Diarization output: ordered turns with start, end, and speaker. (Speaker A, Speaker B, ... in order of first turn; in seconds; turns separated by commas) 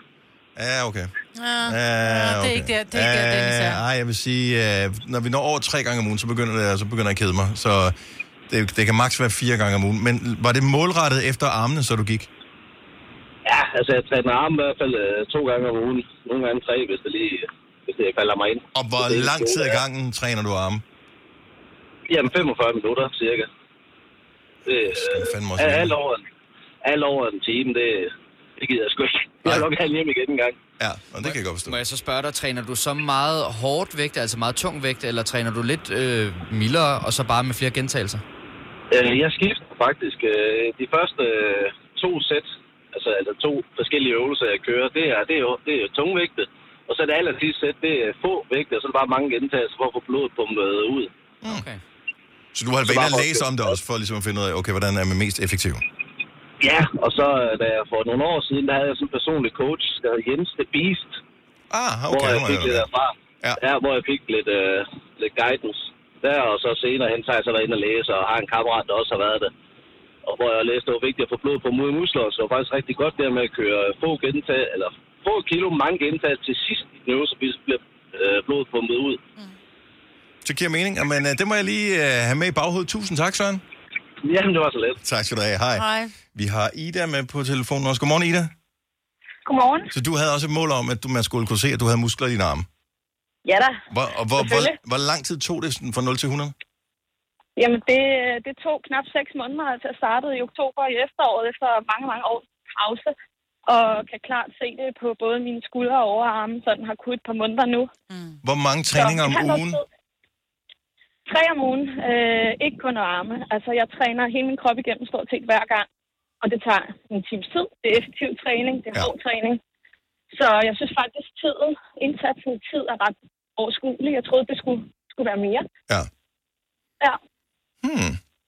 Speaker A: 0.6-1.1, Speaker B: 1.4-3.8, Speaker A: 1.6-7.9, Speaker A: 8.5-12.3, Speaker C: 13.4-19.8, Speaker A: 18.7-20.8, Speaker C: 22.1-23.5, Speaker C: 24.6-26.2, Speaker A: 24.9-26.0, Speaker C: 26.8-30.5, Speaker A: 30.8-31.8, Speaker D: 31.2-38.2, Speaker C: 38.9-51.1, Speaker D: 51.4-51.8, Speaker A: 52.5-55.8, Speaker C: 52.9-53.4, Speaker C: 56.6-61.1, Speaker A: 61.7-62.9, Speaker C: 62.1-69.5, Speaker C: 70.2-79.2, Speaker A: 80.4-83.6, Speaker C: 84.2-85.0, Speaker A: 85.0-88.5, Speaker B: 85.8-86.1, Speaker E: 89.5-89.9, Speaker A: 89.9-92.7, Speaker E: 93.4-93.8, Speaker A: 93.9-96.5, Speaker E: 94.4-94.7, Speaker E: 97.6-103.1, Speaker E: 103.7-107.9, Speaker B: 108.1-108.4, Speaker A: 108.4-109.8, Speaker E: 108.9-109.8, Speaker E: 111.2-115.8, Speaker E: 116.4-119.6, Speaker E: 120.3-125.7, Speaker A: 127.8-128.2